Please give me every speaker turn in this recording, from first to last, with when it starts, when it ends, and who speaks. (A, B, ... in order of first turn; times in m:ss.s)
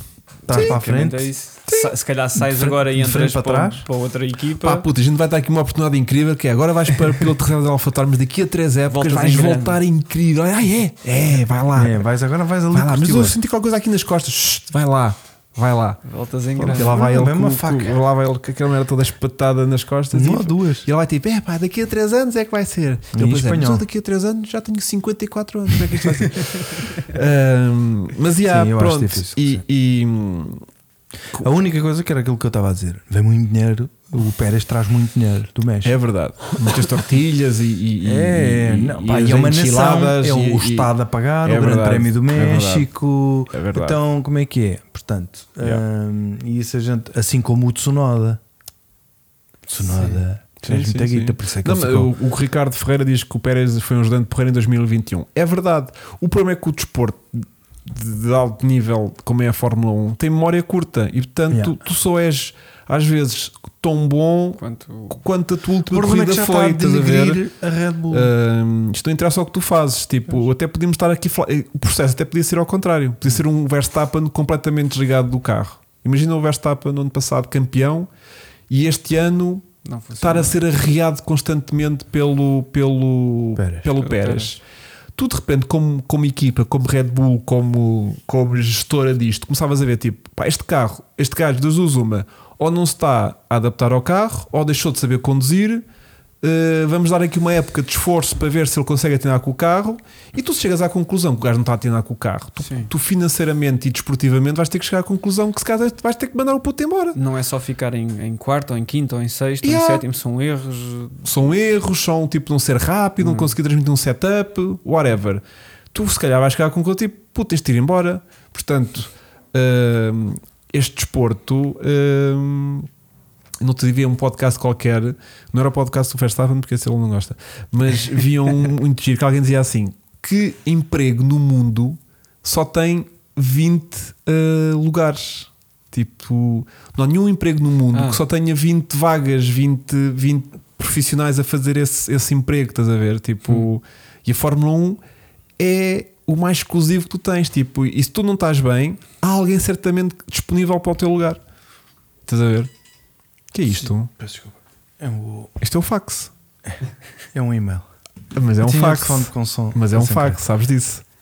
0:00.5-0:03.9 A
0:00.5-0:04.9 B
0:00.5-0:00.8 C
0:04.6-0:12.0 C
0:08.9-0:09.8 B
0:11.7-0:13.4 A
0:12.7-0:16.0 C
0:16.0-0:17.0 B
0:16.6-0:30.6 C
0:16.6-0:18.0 A
0:20.1-0:20.9 A
0:23.1-0:23.9 A
0:28.5-0:29.6 A
0:31.4-0:36.0 A
0:35.8-0:40.9 C
0:38.0-0:48.4 A
0:41.4-0:42.9 C
0:43.5-0:44.0 C
0:49.7-0:52.1 A
0:49.8-0:50.2 B
0:50.6-1:07.4 C
1:01.5-1:01.8 A
1:04.6-1:05.2 B
1:05.9-1:08.3 A
1:08.1-1:18.1 C
1:18.7-1:19.7 C
1:19.8-1:20.6 B
1:20.2-1:24.6 C
1:23.6-1:23.9 A
1:24.0-1:24.6 B
1:25.2-1:35.8 C
1:36.4-1:47.2 C
1:42.6-1:42.9 B
1:47.1-1:51.2 B
1:49.6-1:50.0 C
1:51.2-2:02.9 C
1:53.2-1:53.5 B
2:03.6-2:25.0 C
2:17.9-2:18.2 B
2:25.6-2:31.4 C
2:32.3-2:32.7 C
2:33.5-2:34.1 C
2:34.2-2:35.5 A
2:35.6-2:36.3 C
2:37.3-2:37.9 A
2:38.3-2:41.0 C
2:38.6-2:40.4 A